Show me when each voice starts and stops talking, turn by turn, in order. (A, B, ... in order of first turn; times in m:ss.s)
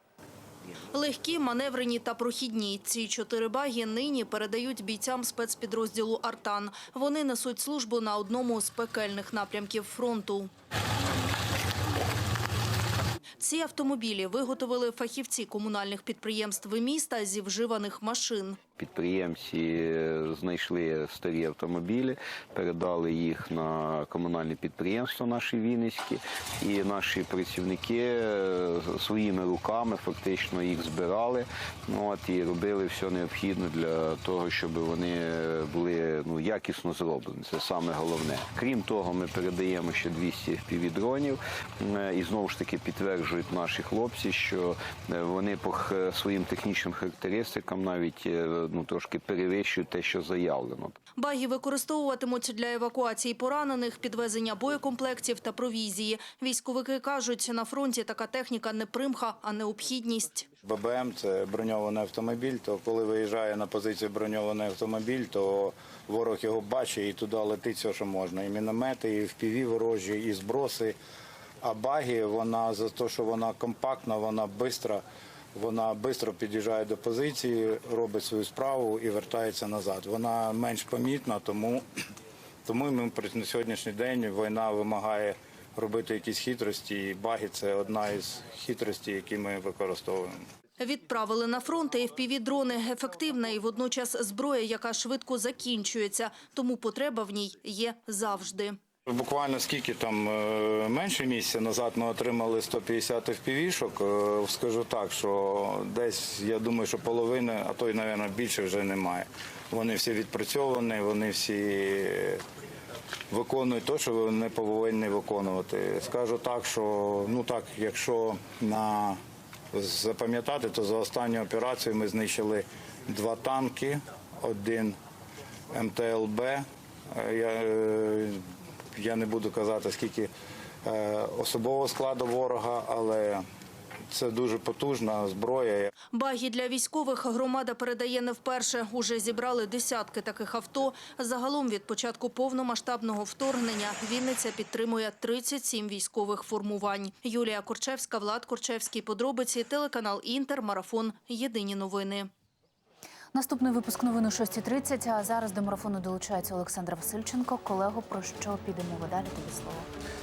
0:00.9-0:10.5 A
0:13.4-0:18.6 A
0:18.8-0:50.9 B
0:51.2-1:00.5 A
1:00.6-1:11.0 C
1:11.6-1:15.0 C
1:15.5-1:21.8 C
1:22.6-1:30.3 C
1:30.8-1:38.7 A
1:39.1-1:52.4 C
1:53.3-1:59.2 C
1:59.7-2:05.0 C
2:05.7-2:08.4 C
2:08.9-2:10.3 C
2:10.8-2:13.4 C
2:14.1-2:15.9 C
2:16.1-2:32.3 A
2:33.3-2:39.9 D